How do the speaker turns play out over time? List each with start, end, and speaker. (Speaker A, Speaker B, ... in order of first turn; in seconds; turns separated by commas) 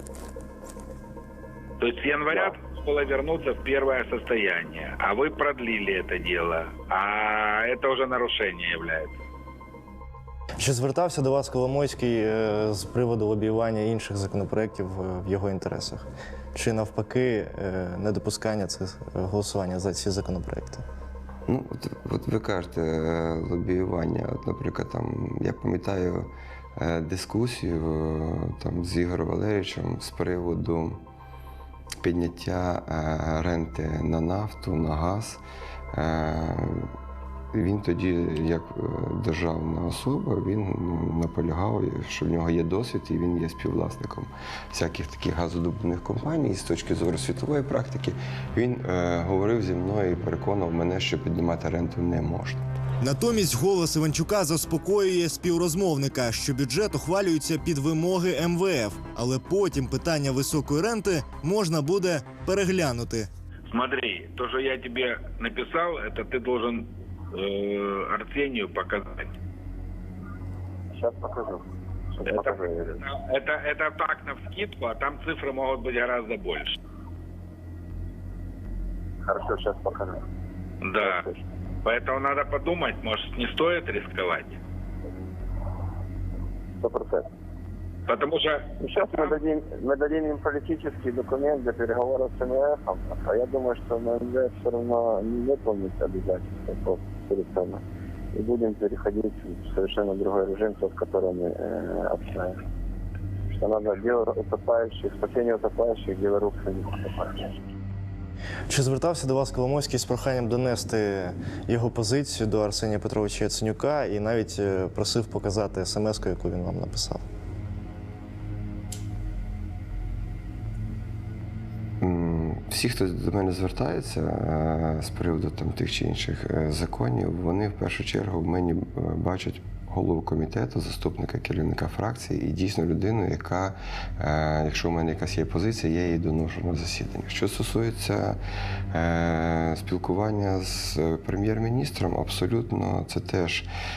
Speaker A: 1.8-9.2, Speaker B: 10.6-20.8, Speaker C: 21.5-31.0, Speaker C: 32.0-35.4, Speaker C: 35.9-36.9, Speaker C: 37.5-52.6, Speaker D: 53.0-63.3, Speaker A: 63.7-69.3, Speaker E: 70.9-71.6, Speaker E: 72.2-73.0, Speaker A: 72.3-76.8, Speaker E: 79.2-80.2, Speaker A: 80.8-81.3, Speaker E: 81.0-81.4, Speaker A: 81.8-84.6, Speaker E: 86.8-87.3, Speaker A: 88.1-88.7, Speaker E: 88.8-97.8, Speaker E: 98.3-102.6, Speaker E: 103.5-107.5, Speaker B: 108.7-117.2, Speaker C: 122.0-138.4, Speaker C: 138.9-143.7